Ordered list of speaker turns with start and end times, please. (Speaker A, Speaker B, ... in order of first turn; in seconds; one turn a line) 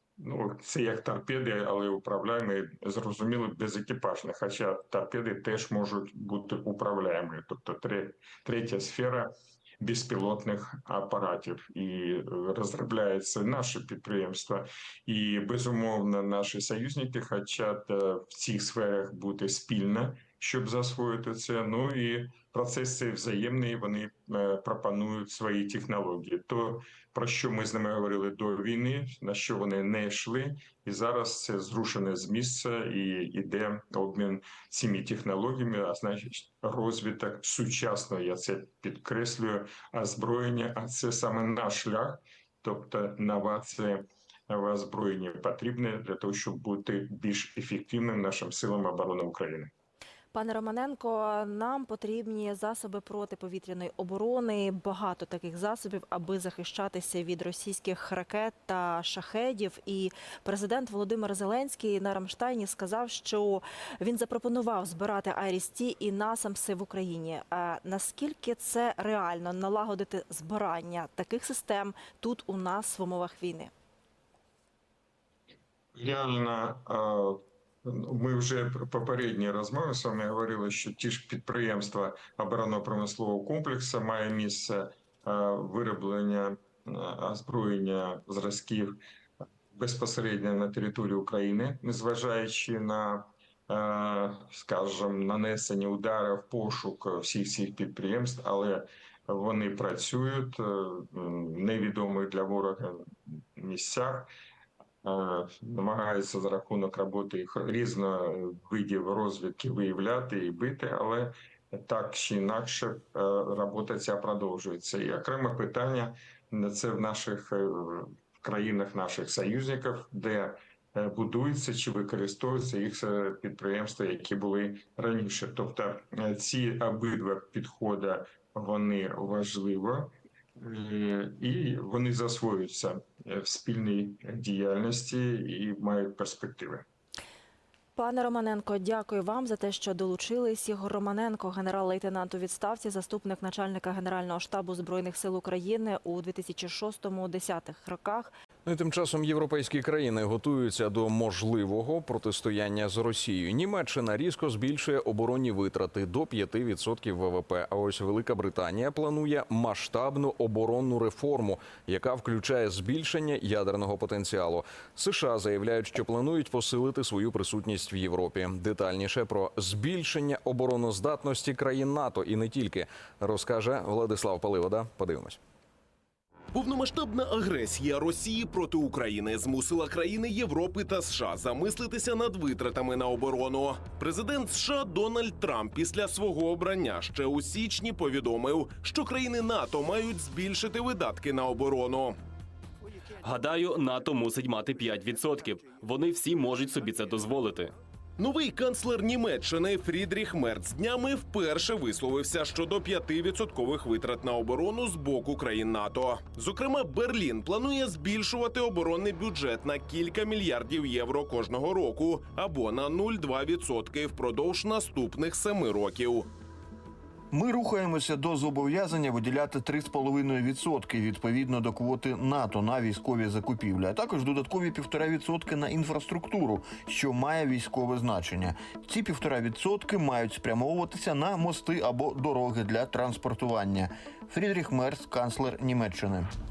Speaker A: 0.2-49.7
Speaker B: 50.3-73.7
Speaker A: 75.9-89.0
Speaker A: 89.7-104.3
Speaker A: 105.0-136.8
Speaker B: 137.9-148.3
Speaker C: 148.7-175.4
Speaker D: 176.5-192.2
Speaker E: 193.2-197.7
Speaker D: 198.2-216.3
Speaker F: 217.3-236.3